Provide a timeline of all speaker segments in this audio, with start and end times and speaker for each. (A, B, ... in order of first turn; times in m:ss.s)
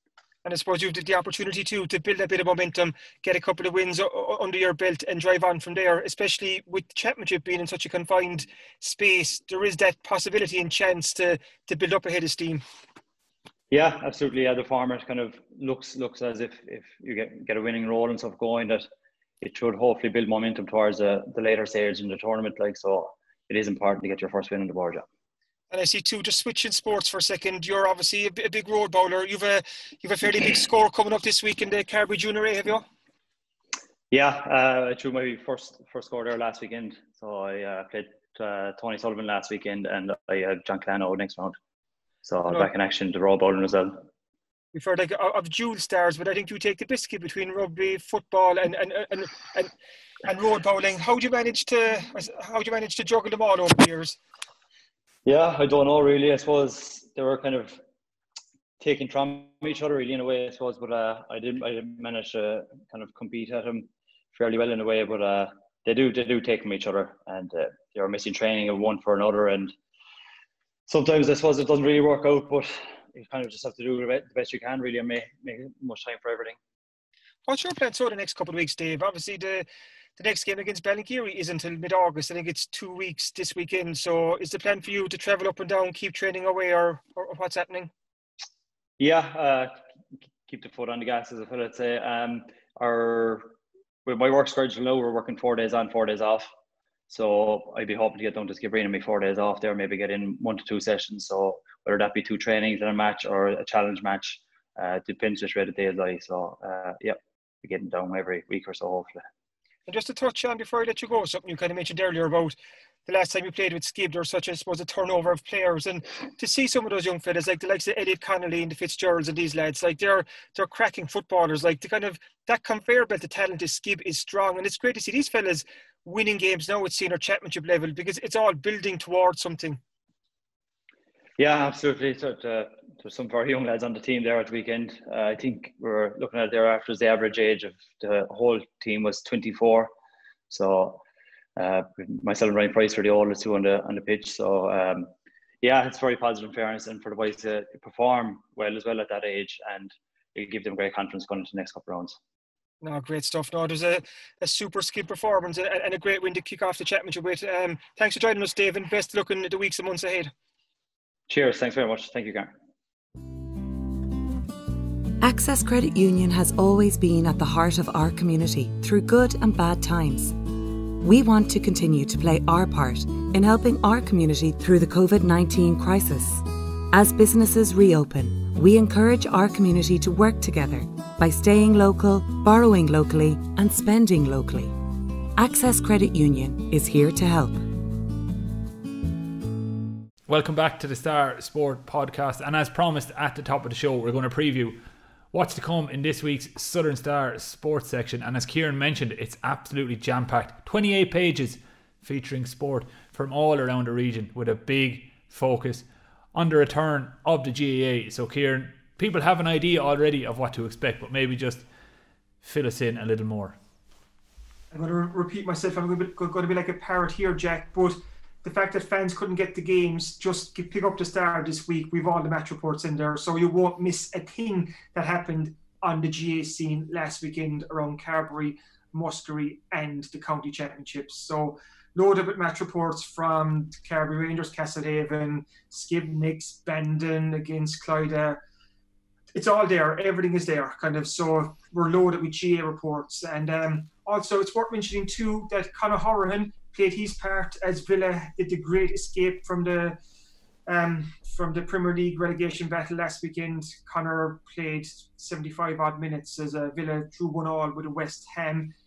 0:00.4-0:12.6 A
0:13.7-0:18.9 B
0:19.4-0:25.0 B
0:25.7-0:32.8 A
0:34.1-0:41.6 B
0:42.2-0:44.0 B
0:44.7-0:49.7 A
0:50.2-0:54.2 A
0:55.3-0:57.8 B
0:58.8-1:09.7 B
1:10.9-1:16.6 B
1:17.5-1:19.7 A
1:20.2-1:27.9 A
1:29.0-1:29.8 B
1:30.5-1:36.5 B
1:37.1-1:49.2 B
1:49.9-2:09.8 A
2:11.4-2:19.9 B
2:20.5-2:21.0 B
2:21.6-2:25.1 B
2:25.6-2:32.2 B
2:32.8-2:40.3 A
2:41.3-2:42.5 B
2:45.2-2:50.4 C
2:51.0-3:04.8 C
3:05.4-3:07.6 C
3:10.3-3:14.8 D
3:15.3-3:31.7 D
3:32.4-3:33.6 D
3:34.7-3:58.4 A
3:59.3-4:10.0 A
4:10.7-4:18.7 A